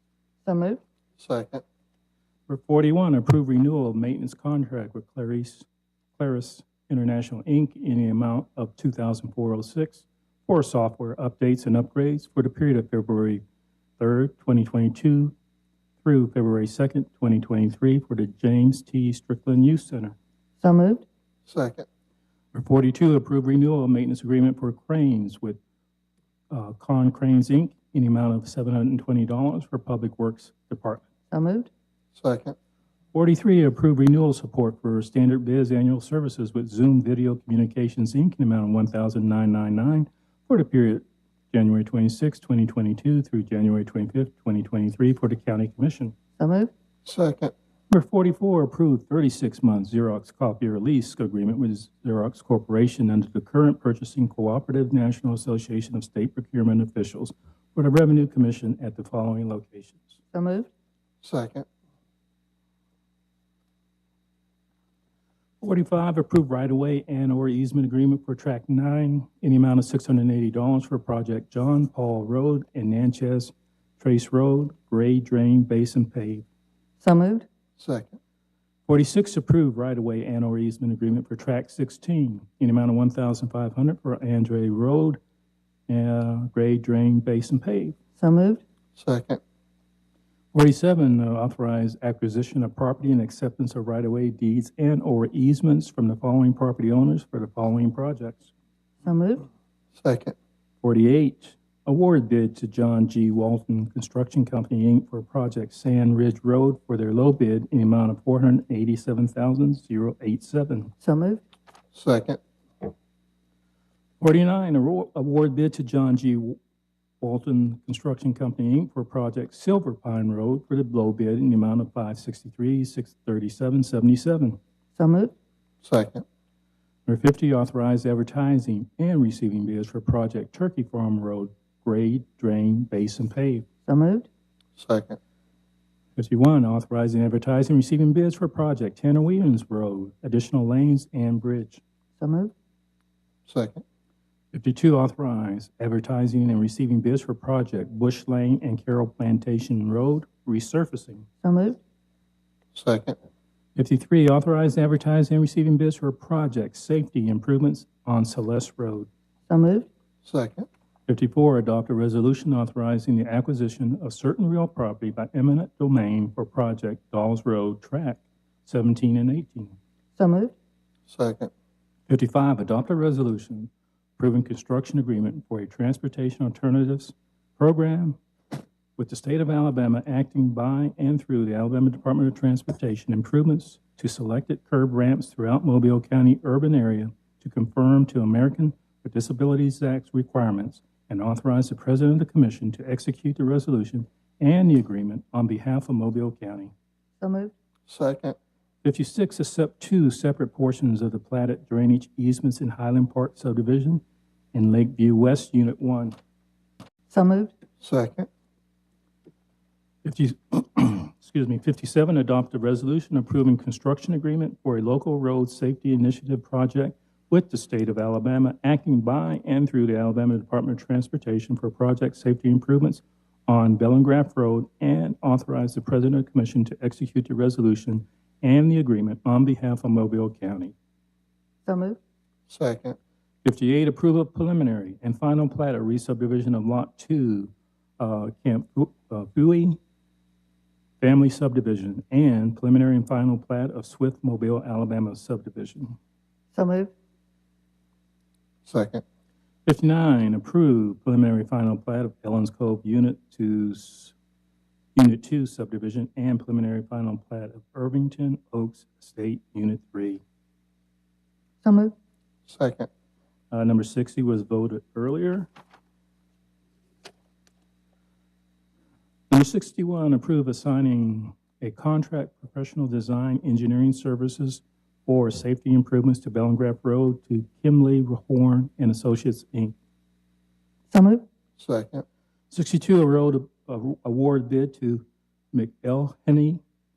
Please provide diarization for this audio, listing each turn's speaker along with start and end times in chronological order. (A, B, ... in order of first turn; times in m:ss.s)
0:00.4-0:00.8 A
0:01.2-0:01.6 B
0:02.5-0:05.6 C
0:06.2-0:13.4 C
0:14.0-0:15.3 C
0:16.0-0:20.2 C
0:20.6-0:21.0 A
0:21.5-0:21.8 B
0:22.5-0:25.6 C
0:26.5-0:31.0 C
0:31.3-0:31.7 A
0:32.1-0:32.5 B
0:33.1-0:46.1 C
0:46.4-0:46.7 A
0:47.0-0:47.5 B
0:47.9-1:00.2 C
1:00.3-1:00.7 A
1:01.2-1:01.6 B
1:05.6-1:16.4 C
1:17.0-1:17.4 A
1:17.8-1:18.2 B
1:18.9-1:25.2 C
1:25.9-1:28.0 C
1:28.2-1:28.6 A
1:29.0-1:29.4 B
1:30.5-1:38.5 C
1:39.0-1:39.5 A
1:40.0-1:40.3 B
1:40.8-1:50.9 C
1:51.0-1:51.4 A
1:51.9-1:52.4 B
1:54.2-1:56.6 C
1:57.2-2:04.6 C
2:05.0-2:05.3 A
2:05.8-2:06.2 B
2:07.0-2:13.7 C
2:13.8-2:14.3 A
2:14.8-2:15.2 B
2:16.2-2:21.8 C
2:22.2-2:22.5 A
2:23.5-2:23.8 B
2:24.5-2:31.3 C
2:31.4-2:31.8 A
2:32.7-2:33.2 B
2:33.8-2:39.1 C
2:39.5-2:39.9 A
2:40.2-2:40.7 B
2:41.1-2:49.8 C
2:50.2-2:50.5 A
2:51.1-2:51.5 B
2:52.1-2:58.2 C
2:59.0-3:16.7 C
3:17.2-3:17.5 A
3:17.9-3:18.4 B
3:18.8-3:24.0 C
3:24.5-3:26.2 C
3:27.1-3:27.5 A
3:27.8-3:28.3 B
3:30.0-3:50.7 C
3:51.6-3:52.0 A
3:52.5-3:53.0 B
3:53.4-3:59.8 C
4:01.0-4:06.0 C
4:06.5-4:06.9 A
4:08.6-4:09.0 B
4:09.6-4:14.1 C
4:14.9-4:20.2 C
4:21.6-4:21.9 A
4:22.5-4:22.9 B
4:23.5-4:25.5 C
4:29.3-4:39.7 C
4:40.9-4:41.2 A
4:41.6-4:42.0 B
4:42.5-4:46.6 C